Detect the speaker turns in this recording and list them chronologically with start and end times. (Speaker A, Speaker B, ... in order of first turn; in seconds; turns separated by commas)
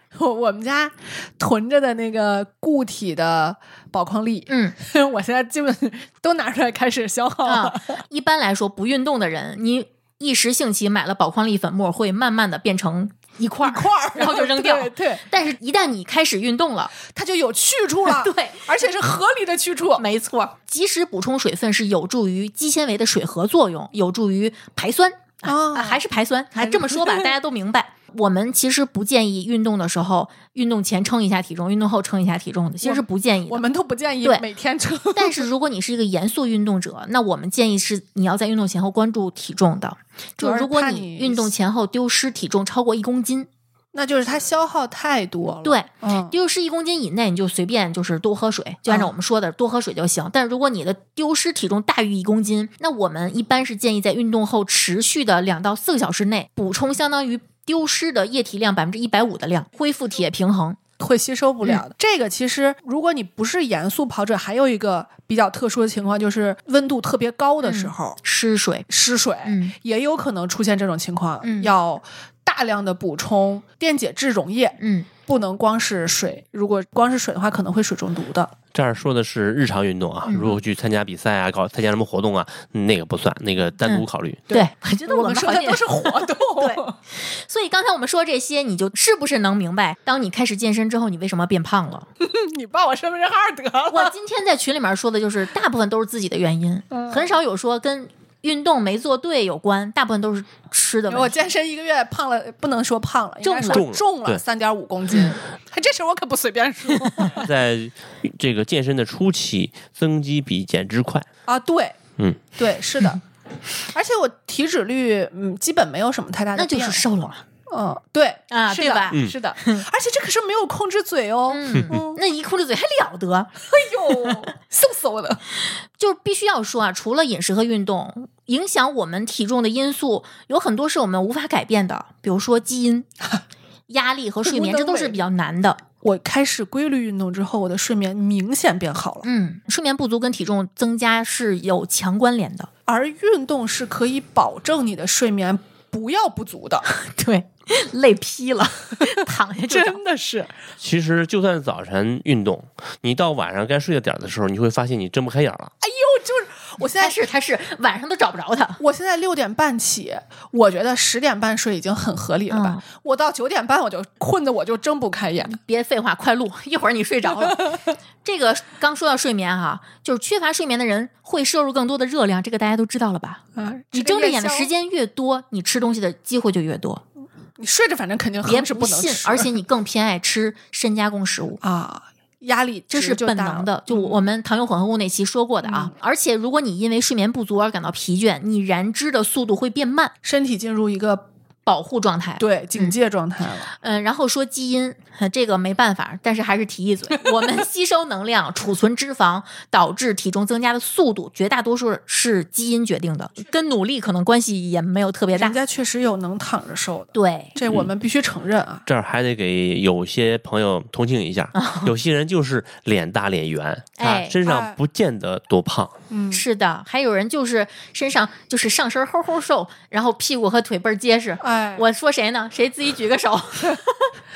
Speaker A: 0.1-8.0, Speaker B: 4.5-4.8, Speaker B: 7.5-16.9, Speaker A: 13.6-15.2, Speaker A: 17.1-20.0, Speaker B: 18.1-18.7, Speaker B: 20.0-33.6, Speaker A: 25.5-26.0, Speaker A: 26.6-27.3, Speaker A: 32.8-35.5, Speaker B: 35.1-43.5, Speaker A: 40.4-41.5, Speaker A: 43.9-46.3, Speaker B: 45.6-60.8, Speaker A: 61.0-68.2, Speaker B: 67.6-68.9, Speaker A: 68.9-78.5, Speaker B: 69.4-69.7, Speaker B: 71.4-71.7, Speaker B: 74.8-75.1, Speaker C: 78.7-84.5, Speaker B: 80.3-80.5, Speaker B: 83.8-92.1, Speaker A: 84.5-87.0, Speaker A: 92.2-94.1, Speaker B: 93.9-101.5, Speaker A: 96.9-97.3, Speaker A: 101.1-107.5, Speaker B: 103.4-103.8, Speaker C: 103.7-104.4, Speaker C: 107.3-111.3, Speaker A: 111.5-112.0, Speaker A: 112.5-113.2, Speaker A: 113.9-117.0, Speaker B: 116.5-117.4, Speaker A: 117.7-122.2, Speaker B: 118.5-119.8, Speaker B: 121.5-123.5, Speaker A: 123.7-125.4, Speaker B: 126.0-133.1, Speaker B: 133.9-135.8, Speaker A: 134.4-135.2, Speaker A: 136.0-139.3, Speaker B: 139.2-142.7, Speaker A: 142.9-146.9, Speaker B: 146.9-150.0, Speaker A: 149.7-150.5, Speaker C: 150.8-155.7, Speaker A: 155.8-157.2, Speaker B: 156.9-158.8, Speaker A: 158.8-165.6, Speaker B: 162.5-162.8, Speaker B: 165.5-173.4, Speaker A: 173.6-174.7, Speaker B: 173.9-177.0, Speaker A: 177.6-179.5, Speaker B: 178.4-181.6, Speaker A: 181.6-184.2, Speaker B: 182.9-190.1, Speaker A: 185.6-185.9, Speaker A: 190.2-191.2, Speaker B: 191.7-192.9, Speaker A: 192.4-193.7, Speaker B: 193.8-205.6, Speaker A: 205.3-208.8, Speaker B: 207.1-207.6, Speaker C: 208.9-215.9, Speaker B: 211.5-211.9, Speaker B: 214.0-214.4, Speaker A: 214.4-214.8, Speaker A: 216.1-216.4, Speaker B: 216.3-224.1, Speaker A: 221.4-221.8